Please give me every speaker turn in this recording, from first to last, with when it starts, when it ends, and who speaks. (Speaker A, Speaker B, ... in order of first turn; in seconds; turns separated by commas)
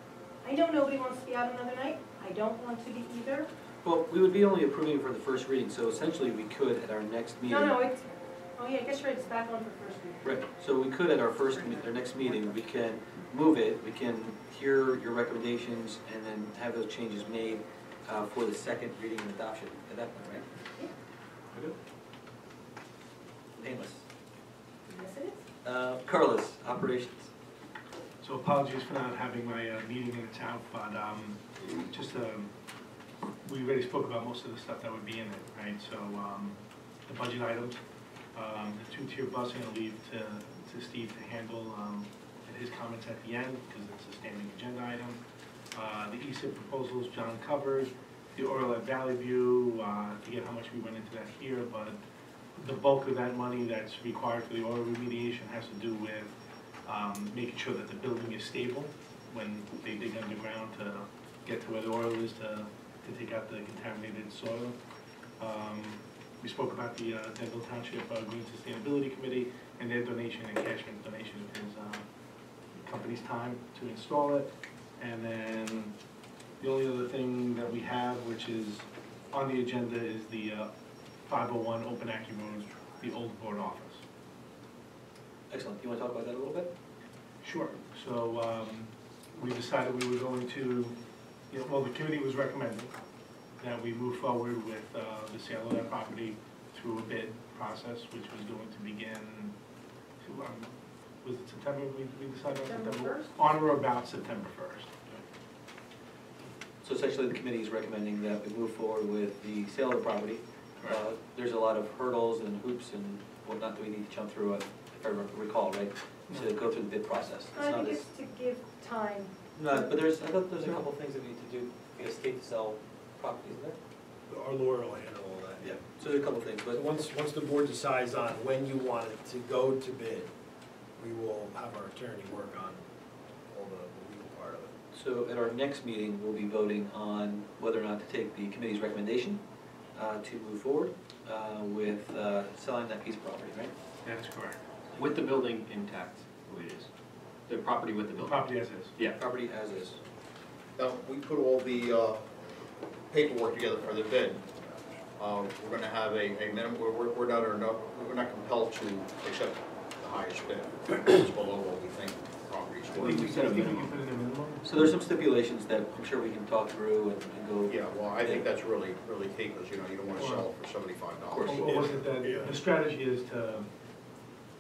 Speaker A: 0.4-3.5, Speaker B: 3.8-7.8, Speaker A: 7.5-10.3, Speaker B: 10.2-20.5, Speaker B: 23.6-24.1, Speaker A: 24.9-25.4, Speaker B: 25.6-27.3, Speaker C: 28.2-32.5, Speaker C: 33.5-37.8, Speaker C: 38.4-45.2, Speaker C: 45.8-52.0, Speaker C: 52.6-56.4, Speaker C: 56.9-64.8, Speaker C: 65.4-72.0, Speaker C: 72.8-75.9, Speaker C: 76.6-80.7, Speaker C: 81.3-84.0, Speaker B: 85.5-86.7, Speaker C: 87.4-91.0, Speaker C: 91.5-92.9, Speaker C: 93.6-99.5, Speaker C: 100.2-105.2, Speaker A: 102.7-103.4, Speaker B: 106.8-118.0, Speaker A: 117.5-119.9, Speaker B: 119.6-123.8, Speaker D: 124.3-125.8, Speaker B: 125.6-126.8, Speaker D: 126.7-130.3, Speaker D: 131.0-132.8, Speaker D: 133.5-134.8, Speaker B: 134.9-139.4, Speaker B: 140.0-143.7, Speaker C: 144.0-144.6, Speaker E: 145.0-146.9, Speaker E: 147.5-149.2, Speaker C: 148.2-148.9, Speaker B: 149.1-150.0, Speaker F: 150.8-152.3, Speaker F: 153.1-154.5, Speaker F: 155.2-163.4, Speaker C: 162.9-164.7, Speaker B: 163.0-163.9, Speaker B: 164.6-168.4, Speaker F: 167.7-171.9, Speaker C: 170.2-170.5, Speaker B: 171.3-171.7, Speaker C: 171.4-173.7, Speaker D: 171.6-172.6